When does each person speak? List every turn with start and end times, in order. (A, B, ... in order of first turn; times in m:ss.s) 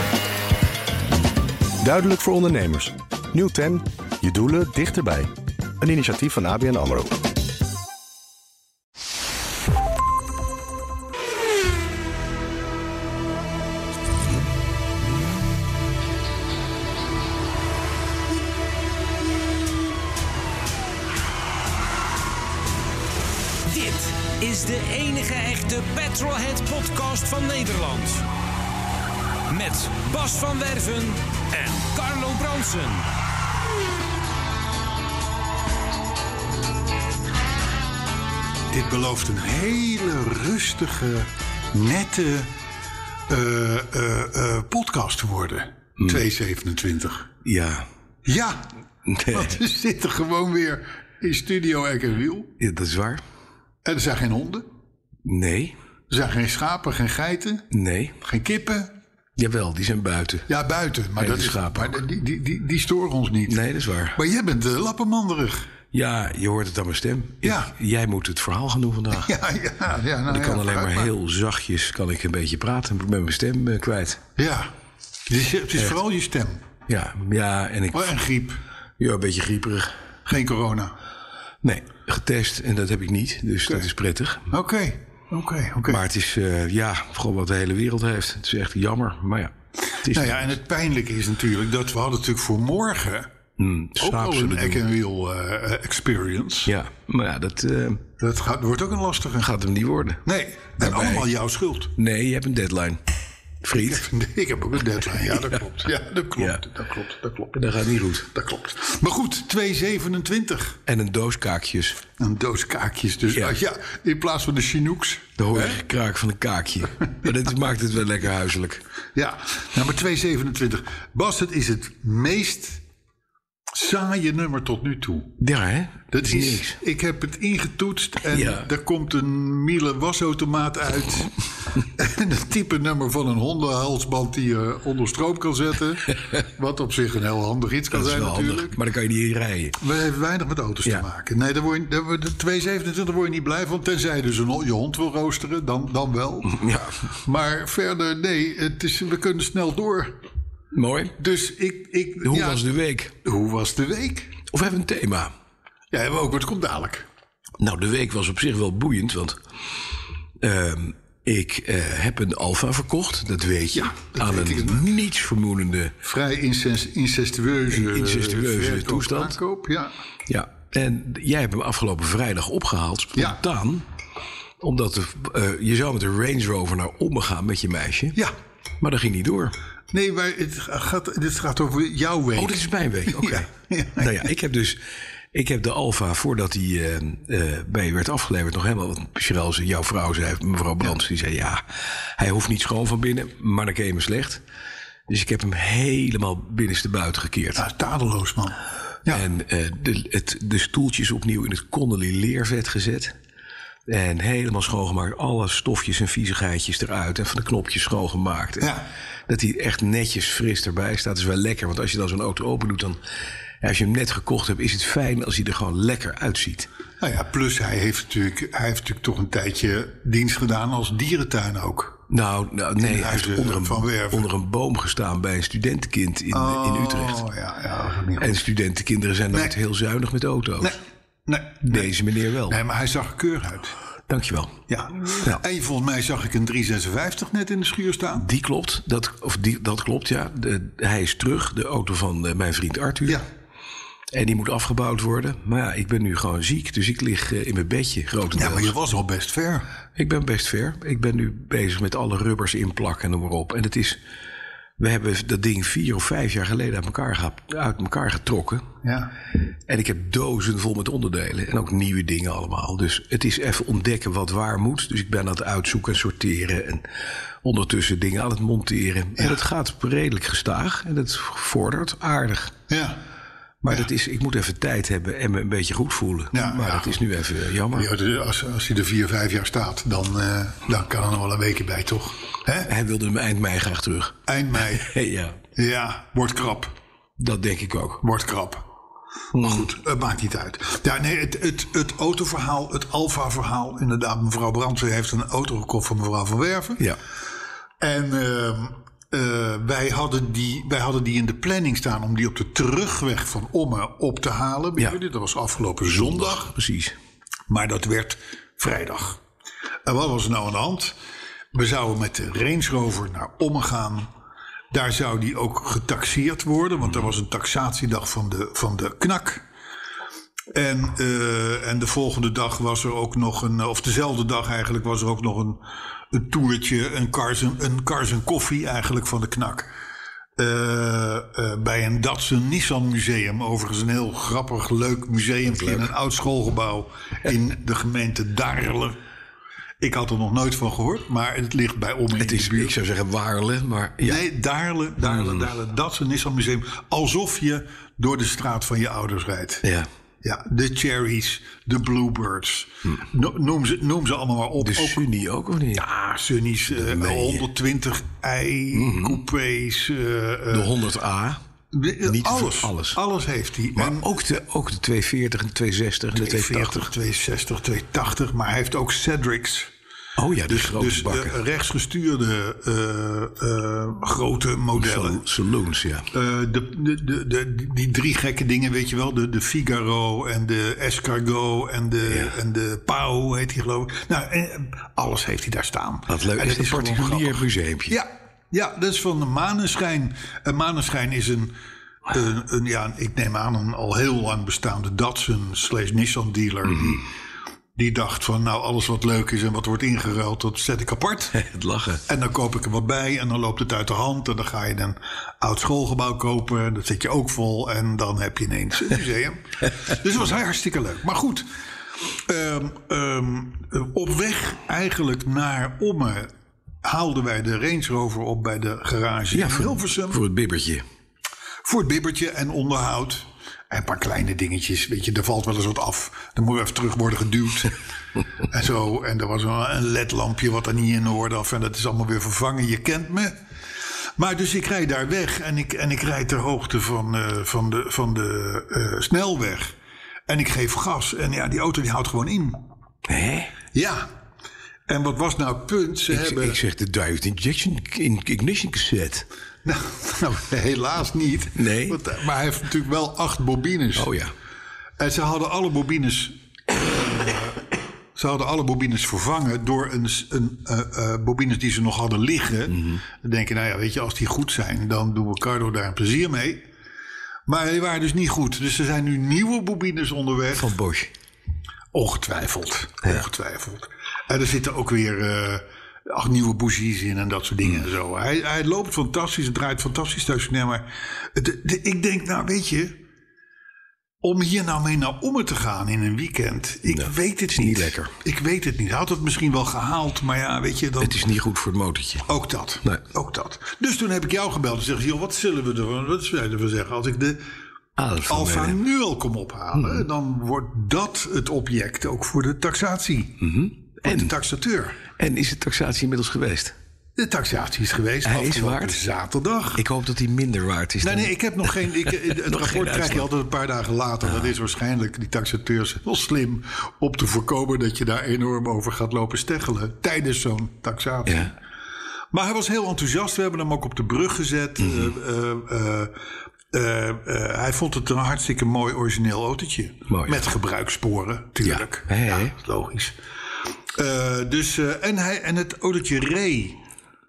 0:01.8-0:05.3 A
0:05.8-0:07.2 A
0:23.7-0:28.2 B
0:29.5-0:33.1 B
0:38.7-0:42.5 C
0:43.3-0:47.3 C
0:46.0-0:46.2 D
0:47.4-0:47.9 D
0:48.2-0:48.7 C
0:49.1-0:49.6 D
0:49.3-0:52.5 C
0:52.6-0:53.2 D
0:53.8-0:54.7 C
0:55.2-0:55.8 D
0:56.1-0:57.7 C
0:57.7-0:58.2 D
0:58.2-0:58.9 C
0:59.4-1:00.5 D
1:00.5-1:05.7 C
1:01.2-1:02.0 D
1:03.5-1:04.2 D
1:05.9-1:09.3 D
1:07.4-1:07.7 C
1:09.1-1:11.1 C
1:10.3-1:14.2 D
1:14.4-1:14.7 C
1:15.3-1:16.6 C
1:16.9-1:18.1 D
1:17.9-1:18.6 C
1:19.0-1:19.9 D
1:20.3-1:21.0 C
1:21.6-1:24.5 D
1:24.5-1:26.0 C
1:25.9-1:30.6 D
1:30.1-1:33.3 C
1:33.6-1:34.8 D
1:34.0-1:36.7 C
1:36.6-1:38.0 D
1:38.2-1:39.5 C
1:39.4-1:40.2 D
1:40.2-1:41.9 C
1:40.8-1:41.3 D
1:42.0-1:43.0 D
1:43.6-1:44.1 D
1:43.7-1:47.7 C
1:45.4-1:45.6 D
1:46.4-1:46.6 D
1:47.5-1:48.3 D
1:48.2-1:50.8 C
1:50.9-1:52.0 D
1:52.2-1:55.8 C
1:53.2-1:53.6 D
1:55.4-1:58.8 D
1:59.2-2:02.8 C
2:03.7-2:05.3 C
2:05.4-2:06.8 D
2:06.1-2:11.3 C
2:08.3-2:08.7 D
2:12.0-2:18.8 C
2:17.9-2:19.8 D
2:19.8-2:26.6 C
2:26.4-2:27.0 D
2:27.2-2:30.2 C
2:30.7-2:31.2 D
2:31.2-2:32.7 C
2:32.2-2:33.1 D
2:33.2-2:34.4 C
2:34.5-2:35.3 D
2:35.9-2:37.1 C
2:37.6-2:39.4 D
2:40.4-2:45.9 D
2:43.7-2:44.9 C
2:46.0-2:49.9 C
2:47.7-2:49.4 D
2:50.3-2:53.9 D
2:54.6-2:58.2 D
2:58.8-2:59.5 D
2:59.9-3:04.3 C
3:02.4-3:04.8 D
3:05.3-3:11.6 D
3:12.2-3:14.4 D
3:15.1-3:17.7 D
3:17.6-3:19.3 C
3:19.1-3:23.1 D
3:23.9-3:28.7 D
3:28.6-3:28.8 C
3:29.3-3:33.0 D
3:33.6-3:36.7 D
3:37.0-3:42.0 C
3:42.1-3:47.2 D
3:42.8-3:44.3 C
3:46.3-3:48.5 C
3:48.2-3:50.8 D
3:50.6-3:52.0 C
3:51.6-3:52.6 D
3:52.5-3:53.8 C
3:54.1-3:55.4 D
3:54.7-3:58.3 C
3:58.2-4:03.2 D
4:04.1-4:08.8 D
4:08.4-4:09.7 C
4:10.0-4:14.0 D
4:14.8-4:18.7 D
4:18.8-4:19.1 C
4:19.7-4:26.9 D
4:27.4-4:32.5 D
4:32.7-4:33.0 C
4:33.6-4:33.9 C
4:33.7-4:37.9 D
4:36.3-4:37.0 C
4:37.7-4:42.7 C
4:42.7-4:45.4 D
4:44.3-4:44.9 C
4:45.6-4:46.8 C
4:47.2-4:48.0 D
4:48.0-4:48.7 C
4:49.3-4:49.7 D
4:49.4-4:56.8 C
4:57.8-5:06.5 C
5:05.8-5:07.0 D
5:07.5-5:09.2 C
5:09.8-5:11.0 C
5:11.5-5:14.1 C
5:14.7-5:19.4 C
5:20.5-5:29.7 C
5:30.4-5:39.0 C
5:35.5-5:35.9 D
5:39.8-5:42.8 C
5:42.2-5:44.2 D
5:44.0-5:49.6 C
5:45.0-5:45.5 D
5:49.6-5:49.9 D
5:50.2-5:55.0 C
5:54.6-5:55.8 D
5:55.7-6:00.7 C
5:56.7-5:57.5 D
5:58.7-5:59.2 D
6:00.5-6:01.4 D
6:01.7-6:04.1 C
6:02.0-6:03.0 D
6:03.8-6:06.9 D
6:06.1-6:09.7 C
6:10.2-6:11.4 D
6:10.5-6:15.2 C
6:14.7-6:16.1 D
6:16.1-6:31.5 C
6:22.0-6:22.4 D
6:26.1-6:28.0 D
6:32.1-6:37.1 C
6:37.8-6:41.4 C
6:41.3-6:42.0 D
6:42.1-6:51.5 C
6:52.3-6:56.3 C
6:56.8-7:00.2 C
6:59.3-7:00.8 D
7:01.6-7:07.8 C
7:08.5-7:13.4 C
7:14.2-7:19.8 C
7:20.3-7:22.6 C
7:23.1-7:23.5 D
7:23.7-7:24.1 C
7:24.9-7:26.6 C
7:26.1-7:29.3 D
7:29.6-7:34.1 C
7:31.6-7:32.0 D
7:34.0-7:34.3 D
7:35.0-7:37.6 C
7:38.2-7:46.7 C
7:42.7-7:43.0 D
7:47.5-7:50.7 C
7:50.5-7:51.1 D
7:51.9-8:03.0 C
8:04.2-8:11.3 C
8:06.9-8:08.1 D
8:11.0-8:12.3 D
8:12.3-8:17.4 C
8:18.0-8:18.8 D
8:18.3-8:23.4 C
8:19.8-8:20.0 D
8:23.4-8:24.3 D
8:24.0-8:25.0 C
8:25.2-8:26.7 D
8:27.2-8:29.8 C
8:28.2-8:29.0 D
8:29.8-8:33.3 D
8:31.0-8:41.6 C
8:41.3-8:41.5 D
8:42.3-8:46.2 C
8:44.8-8:45.1 D
8:46.7-8:53.2 C
8:50.1-8:50.4 D
8:51.6-8:52.6 D
8:53.9-8:56.8 C